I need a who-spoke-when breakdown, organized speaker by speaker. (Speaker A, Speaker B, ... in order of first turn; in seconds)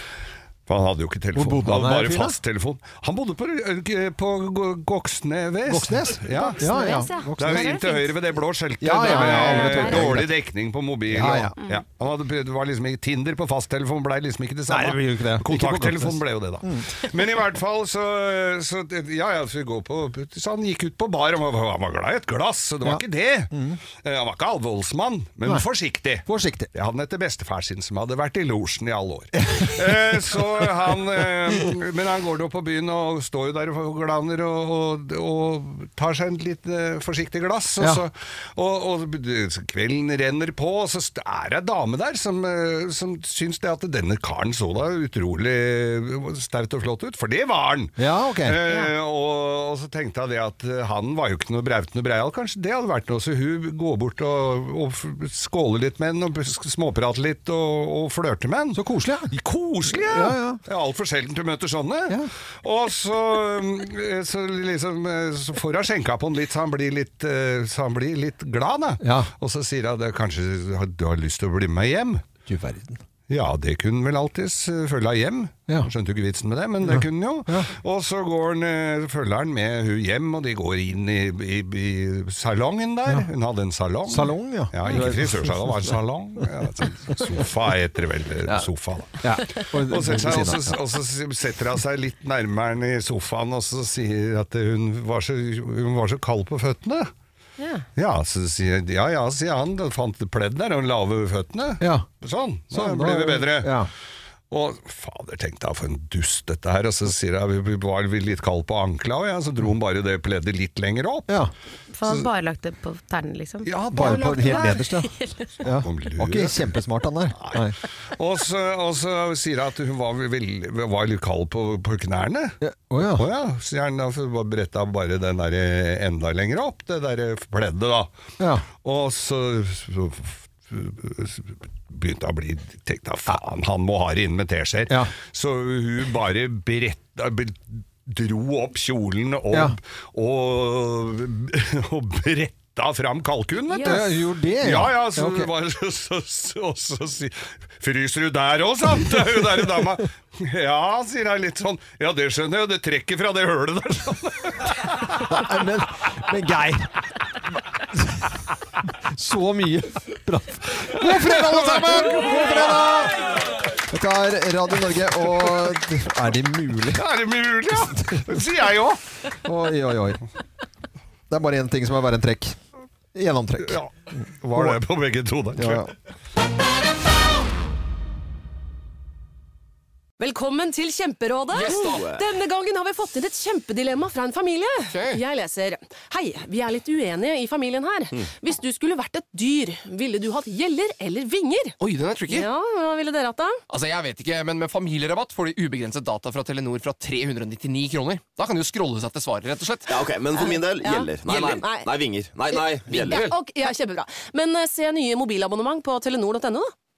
Speaker A: 0.7-6.7, 7.4-72.2, 73.3-97.1, 98.0-103.8, 104.5-111.3, 113.7-114.5, 115.7-116.7, 117.4-122.6, 123.1-128.1, 128.8-155.3, 161.0-162.9, 166.9-169.0, 173.7-175.9
Speaker B: 1.4-2.4, 5.7-7.9, 8.8-10.3, 11.1-11.6, 14.7-16.9, 22.8-23.8, 26.2-26.7, 29.4-30.4, 48.0-48.6, 58.7-59.3, 60.0-60.6, 69.0-69.3, 72.5-73.0, 76.8-77.7, 84.1-86.4, 89.2-90.8, 101.8-102.1, 102.7-103.9, 113.8-117.8, 122.6-123.3, 128.4-128.7, 139.5-139.8, 143.8-145.5, 155.2-156.9, 159.1-167.0, 167.9-168.2, 169.4-170.2, 171.3-172.6, 173.1-173.8, 174.5-174.8, 175.6-175.9
Speaker C: 6.3-8.1, 9.1-10.1, 111.9-115.5, 143.7-144.1
Speaker D: 180.2-191.8, 192.3-193.6, 200.4-201.9, 202.5-206.7
Speaker E: 181.6-182.1, 184.9-185.2, 191.8-192.5, 193.7-200.0, 202.9-203.4
Speaker F: 181.6-182.2, 199.9-203.3